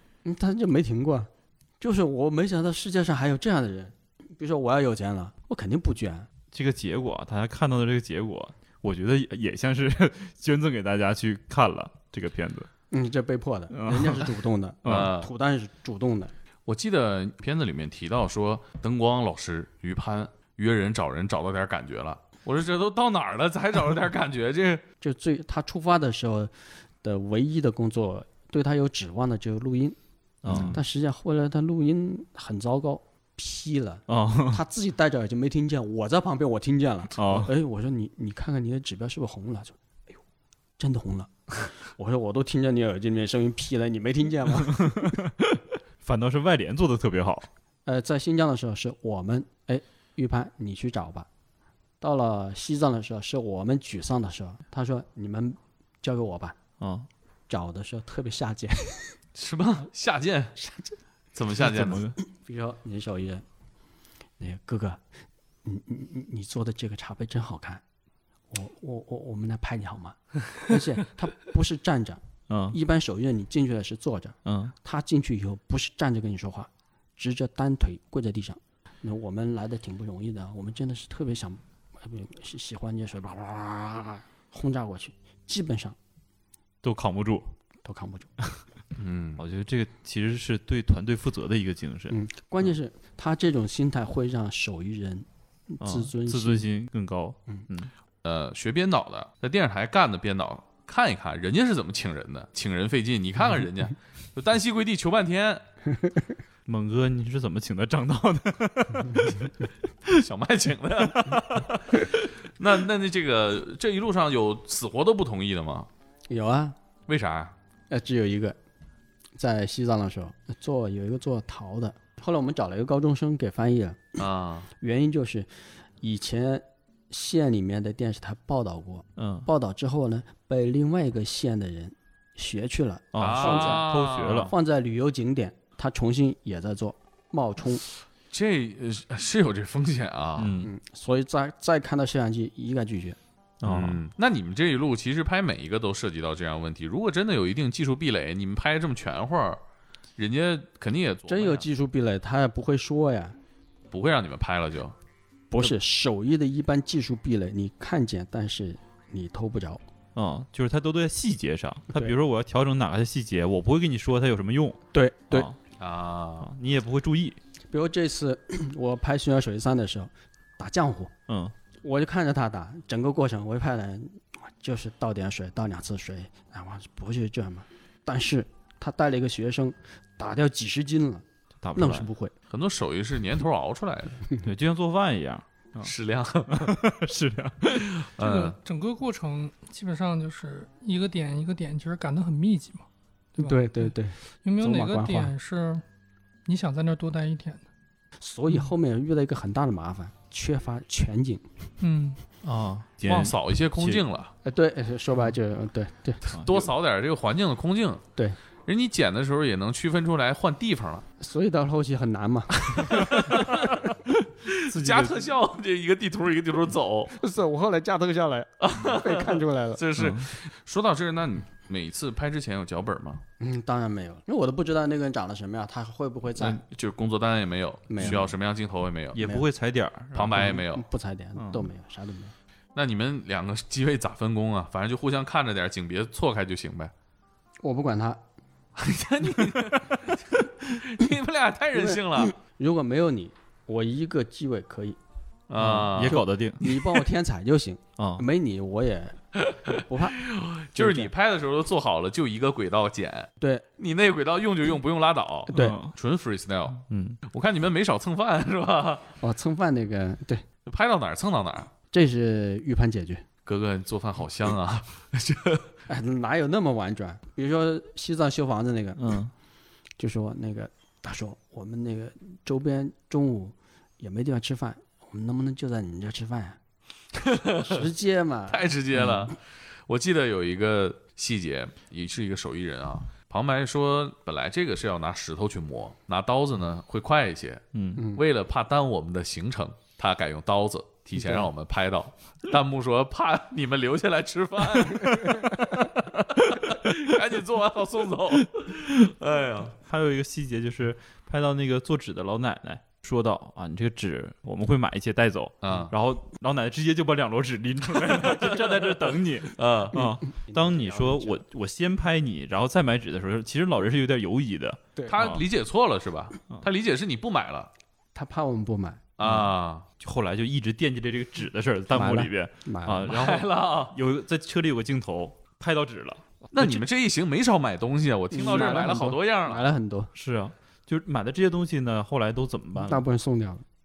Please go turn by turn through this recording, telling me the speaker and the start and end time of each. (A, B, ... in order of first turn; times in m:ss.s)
0:00.2-0:06.3 A
0:06.5-0:12.7 B
0:12.9-0:16.3 A
0:13.7-0:14.3 B
0:14.8-0:15.1 B
0:14.8-0:15.3 C
0:16.6-0:24.8 C
0:25.0-0:30.0 A
0:30.4-0:30.8 B
0:30.5-0:30.7 C
0:30.5-0:39.8 A
0:34.1-0:34.6 B
0:37.2-0:37.5 B
0:40.8-0:45.2 A
0:44.6-0:47.5 B
0:47.8-0:51.3 A
0:52.0-0:56.6 A
0:56.8-0:57.1 B
0:57.5-0:59.1 A
0:59.3-1:00.6 C
1:00.6-1:00.8 A
1:01.3-1:02.0 C
1:01.6-1:02.2 B
1:02.3-1:03.4 A
1:04.4-1:05.0 A
1:05.6-1:07.8 A
1:08.5-1:26.0 A
1:12.5-1:12.8 B
1:14.4-1:14.7 B
1:26.8-1:27.5 B
1:27.8-1:28.3 A
1:29.0-1:29.4 C
1:29.4-1:32.2 B
1:32.1-1:36.7 A
1:35.8-1:37.9 B
1:38.2-1:45.6 C
1:46.6-1:49.5 B
1:50.0-1:55.9 C
1:51.2-1:51.6 B
1:56.3-1:56.8 A
1:57.1-1:57.5 C
1:57.9-1:58.6 A
1:59.4-2:04.2 A
2:04.2-2:04.7 C
2:04.8-2:13.8 A
2:09.2-2:09.5 B
2:13.1-2:14.5 B
2:13.2-2:14.5 C
2:14.4-2:17.8 A
2:18.3-2:20.5 C
2:20.4-2:20.7 B
2:20.6-2:23.2 A
2:23.6-2:24.0 B
2:23.6-2:29.6 C
2:30.2-2:31.6 C
2:31.3-2:33.4 A
2:33.9-2:34.9 C
2:35.5-2:39.8 A
2:40.1-2:45.6 B
2:44.9-2:45.5 A
2:45.8-2:46.5 C
2:46.4-2:47.4 B
2:47.7-2:51.1 A
2:51.3-2:51.5 B
2:51.8-3:02.3 A
3:01.6-3:02.1 B
3:02.5-3:04.2 C
3:04.4-3:05.9 B
3:05.8-3:06.8 C
3:06.4-3:08.1 B
3:08.2-3:08.6 C
3:08.2-3:15.8 D
3:13.4-3:15.3 A
3:16.4-3:17.6 D
3:18.2-3:21.4 A
3:21.8-3:22.2 D
3:22.4-3:24.0 B
3:23.0-3:24.3 C
3:24.4-3:26.2 A
3:26.3-3:26.7 B
3:26.3-3:28.0 C
3:28.6-3:31.0 C
3:31.2-3:33.7 A
3:32.7-3:33.8 C
3:34.4-3:37.1 C
3:34.6-3:35.3 B
3:37.2-3:39.8 A
3:38.6-3:43.2 C
3:40.0-3:40.3 B
3:43.4-3:46.6 A
3:46.4-3:49.2 C
3:47.9-3:48.3 A
3:48.0-3:48.2 B
3:49.1-3:50.6 B
3:49.2-3:49.4 A
3:50.1-3:50.8 C
3:50.4-3:52.3 A
3:51.4-3:51.7 B
3:52.7-3:56.9 C
3:57.6-3:58.2 A
3:58.8-4:02.3 C
4:01.7-4:05.0 A
4:05.5-4:06.2 C
4:05.6-4:07.0 B
4:06.1-4:09.2 A
4:08.0-4:08.2 B
4:09.7-4:10.2 A
4:10.2-4:19.1 C
4:10.7-4:11.1 A
4:15.5-4:15.9 B
4:16.9-4:17.2 B
4:19.2-4:20.4 A
4:20.6-4:21.7 C
4:21.9-4:23.2 A
4:23.4-4:25.7 C
4:25.9-4:29.0 A
4:29.0-4:29.3 B
4:30.0-4:36.6 A
4:37.2-4:37.7 C
4:37.5-4:38.7 A
4:38.5-4:59.7 C
4:38.9-4:39.3 B
4:47.7-4:48.0 B
4:51.2-4:51.5 A
4:59.8-5:15.4 B
5:05.6-5:05.9 C
5:08.2-5:08.8 C
5:09.5-5:10.1 C
5:10.3-5:11.4 A
5:15.1-5:17.7 C
5:18.1-5:19.0 A
5:19.2-5:19.8 C
5:19.2-5:19.5 B
5:20.0-5:26.8 B
5:21.9-5:23.1 A
5:23.1-5:24.0 C
5:26.5-5:29.7 C
5:28.3-5:30.1 A
5:30.1-5:33.0 B
5:32.7-5:33.6 A